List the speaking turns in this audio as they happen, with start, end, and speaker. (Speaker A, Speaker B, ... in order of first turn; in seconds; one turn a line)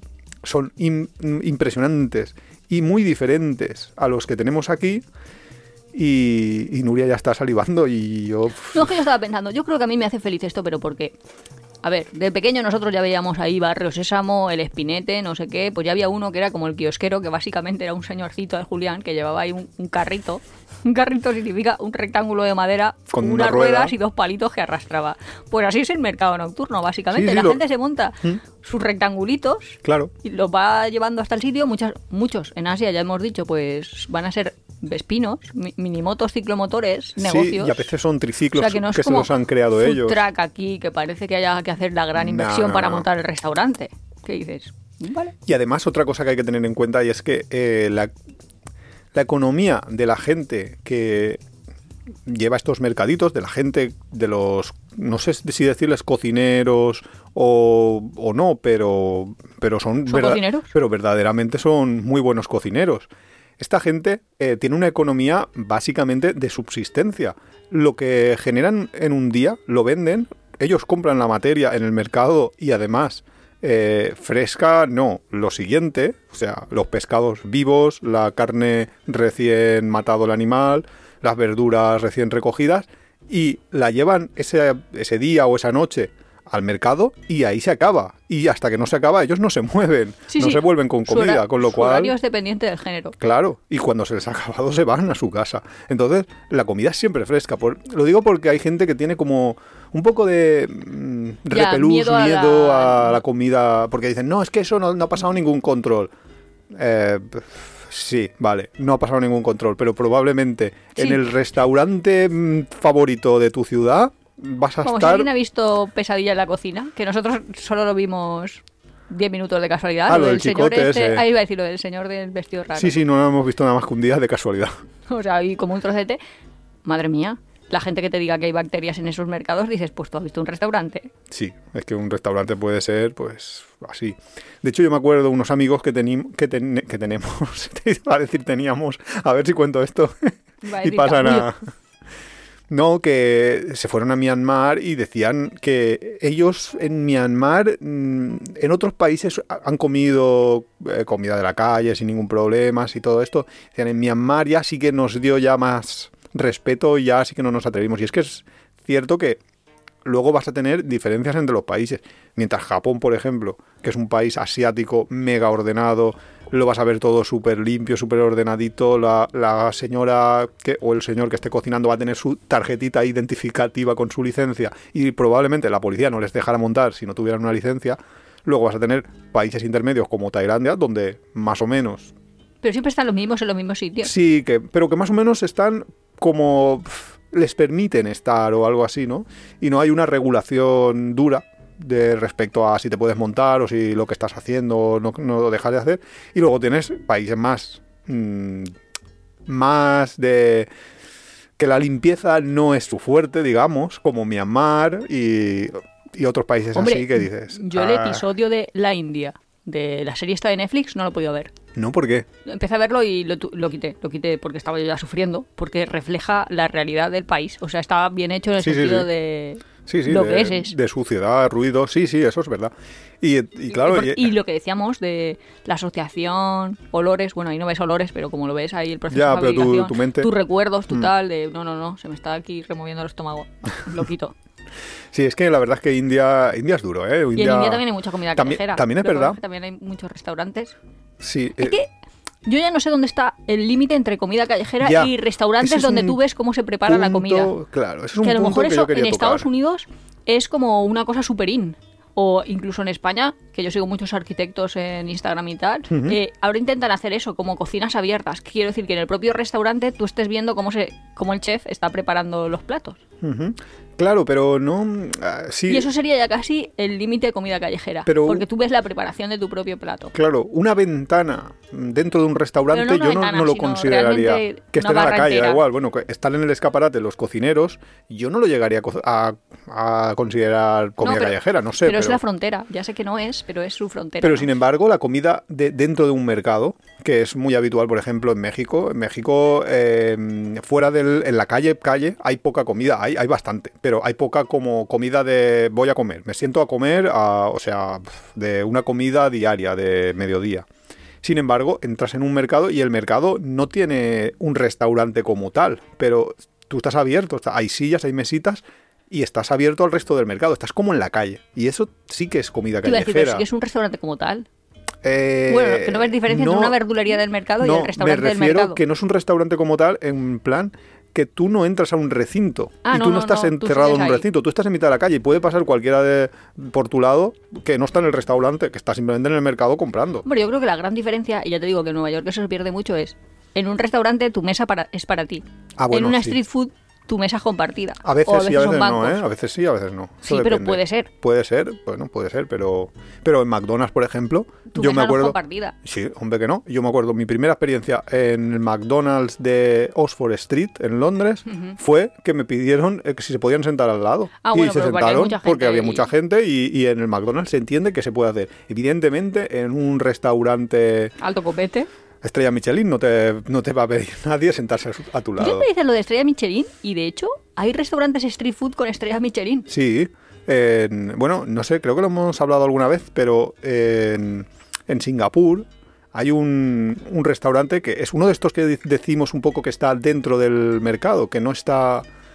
Speaker A: 0.4-5.0
Speaker A: 5.9-8.9
Speaker B: 8.7-11.1
Speaker B: 11.8-37.9
Speaker A: 23.1-23.9
Speaker A: 27.1-27.6
Speaker A: 29.8-30.1
Speaker A: 37.2-40.2
Speaker B: 38.5-45.3
Speaker A: 42.1-43.0
Speaker A: 45.4-48.1
Speaker A: 49.1-51.4
Speaker A: 52.2-92.1
Speaker B: 60.1-60.7
Speaker B: 90.3-93.2
Speaker A: 93.2-106.1
Speaker B: 101.5-103.2
Speaker A: 106.7-115.3
Speaker B: 111.0-111.2
Speaker B: 114.8-123.0
Speaker A: 120.1-121.2
Speaker A: 122.7-124.7
Speaker B: 125.1-126.2
Speaker B: 126.8-131.1
Speaker A: 131.3-141.6
Speaker B: 140.6-141.5
Speaker A: 142.7-159.4
Speaker A: 160.0-182.1
Speaker B: 182.6-184.1
Speaker A: 184.0-198.7
Speaker A: 199.4-200.7
Speaker A: 201.6-208.2
Speaker B: 206.7-211.5
Speaker A: 211.7-212.3
Speaker B: 212.4-220.7
Speaker A: 218.6-219.1
Speaker A: 219.8-224.3
Speaker B: 223.7-234.3
Speaker A: 229.1-230.3
Speaker A: 235.1-237.8
Speaker B: 237.3-240.7
Speaker A: 238.3-239.4
Speaker A: 241.2-241.8
Speaker B: 241.6-241.9
Speaker B: 242.4-247.5
Speaker A: 244.8-246.2
Speaker A: 246.9-249.5
Speaker B: 248.2-263.0
Speaker A: 255.9-256.2
Speaker A: 263.2-265.9
Speaker B: 265.7-270.1
Speaker A: 268.1-268.4
Speaker A: 270.1-282.2
Speaker B: 272.7-275.6
Speaker B: 281.0-284.5
Speaker A: 284.2-300.6
Speaker A: 301.2-313.4
Speaker B: 312.8-314.4
Speaker A: 315.0-316.8
Speaker B: 315.5-318.8
Speaker A: 317.6-330.2
Speaker B: 322.9-324.2
Speaker B: 330.2-339.2
Speaker A: 335.8-336.4
Speaker A: 338.0-361.1
Speaker B: 340.2-341.1
Speaker B: 344.7-345.7
Speaker B: 351.5-351.7
Speaker B: 354.4-356.1
Speaker B: 361.2-361.9
Speaker A: 362.2-365.7
Speaker B: 365.4-369.7
Speaker A: 369.7-382.1